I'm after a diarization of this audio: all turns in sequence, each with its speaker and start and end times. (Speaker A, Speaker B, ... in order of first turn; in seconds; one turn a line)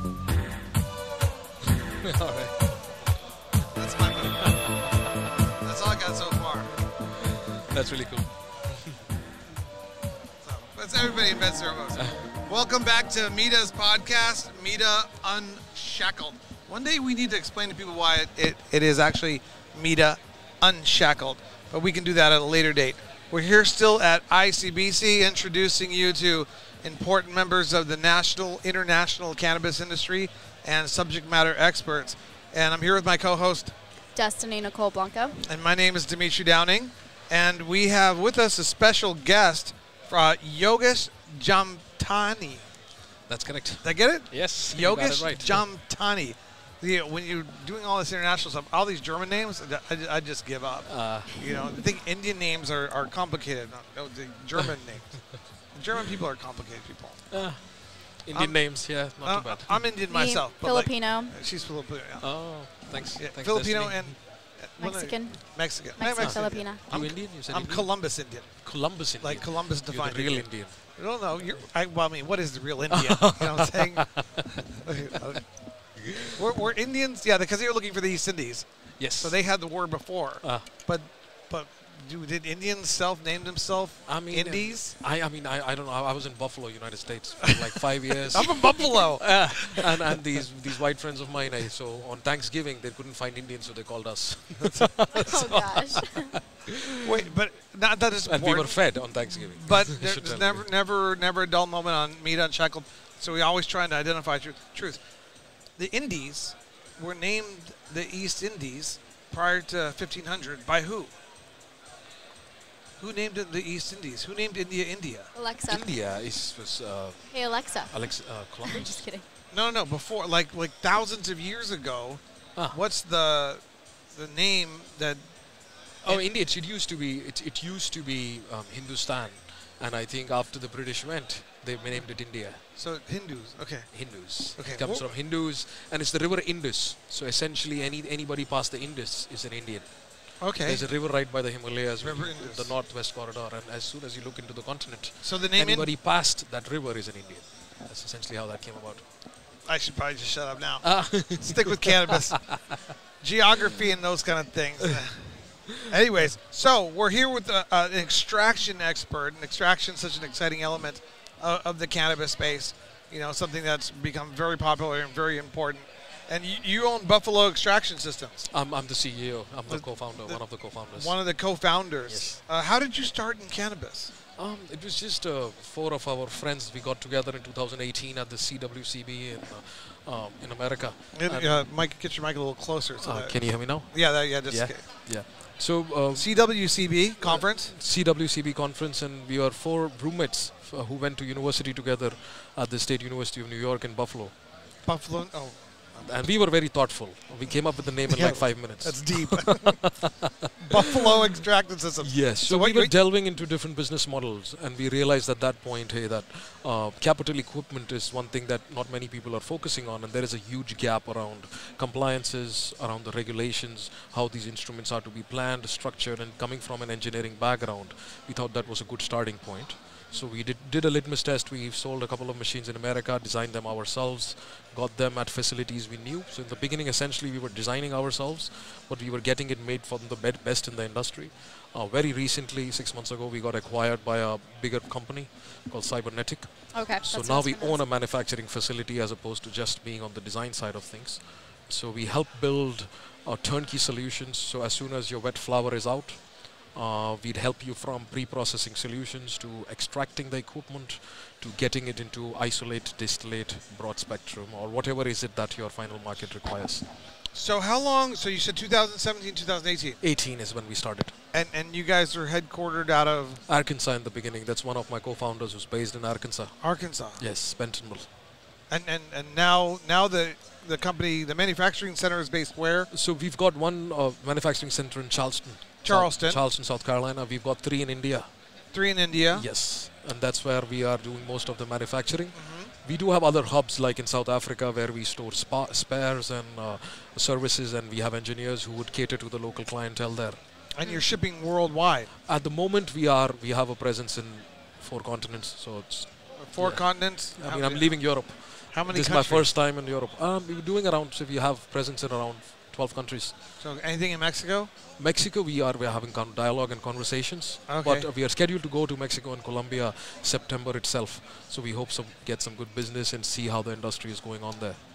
Speaker A: 2.0-3.0
Speaker B: 3.7-4.6
Speaker A: 4.5-5.1
Speaker B: 5.6-6.7
Speaker A: 7.5-9.0
Speaker B: 10.4-33.7
Speaker C: 34.1-35.4
Speaker B: 35.4-42.7
Speaker A: 43.3-45.7
Speaker B: 43.8-57.7
Speaker A: 50.9-51.3
Speaker A: 57.3-59.9
Speaker B: 58.3-75.6
Speaker C: 60.1-61.3
Speaker A: 62.2-64.2
Speaker C: 64.8-67.1
Speaker A: 66.2-70.8
Speaker A: 72.9-74.4
Speaker B: 76.3-85.0
Speaker A: 79.0-79.5
Speaker A: 80.4-80.7
Speaker A: 84.1-96.7
Speaker B: 88.3-89.9
Speaker B: 94.6-95.0
Speaker C: 95.1-96.3
Speaker B: 97.0-105.0
Speaker A: 98.2-100.7
Speaker B: 105.8-111.1
Speaker B: 113.0-115.3
Speaker C: 115.3-115.9
Speaker A: 115.7-119.1
Speaker C: 117.3-118.0
Speaker C: 118.6-119.2
Speaker B: 119.5-125.2
Speaker B: 126.0-126.2
Speaker A: 126.0-132.6
Speaker B: 132.8-135.1
Speaker A: 133.9-149.0
Speaker B: 140.4-140.9
Speaker B: 142.0-142.8
Speaker B: 145.2-145.9
Speaker B: 149.7-152.6
Speaker A: 150.8-151.7
Speaker A: 152.4-152.7
Speaker B: 153.2-168.5
Speaker A: 168.5-171.4
Speaker B: 169.7-174.1
Speaker A: 172.1-172.4
Speaker A: 174.4-181.7
Speaker B: 181.1-185.1
Speaker A: 183.0-194.3
Speaker B: 186.1-187.7
Speaker B: 194.8-196.1
Speaker A: 196.0-199.6
Speaker B: 198.1-200.0
Speaker B: 200.6-202.9
Speaker A: 202.0-256.9
Speaker C: 236.7-237.8
Speaker B: 257.3-260.0
Speaker A: 260.0-261.1
Speaker B: 261.3-263.4
Speaker A: 263.5-268.1
Speaker B: 266.6-267.3
Speaker B: 268.7-272.9
Speaker A: 272.9-278.3
Speaker B: 275.8-276.4
Speaker B: 278.7-279.5
Speaker A: 279.3-290.4
Speaker B: 282.3-282.7
Speaker B: 290.7-292.1
Speaker A: 292.3-303.4
Speaker B: 296.4-299.5
Speaker B: 303.6-304.7
Speaker A: 305.0-314.8
Speaker B: 307.7-308.1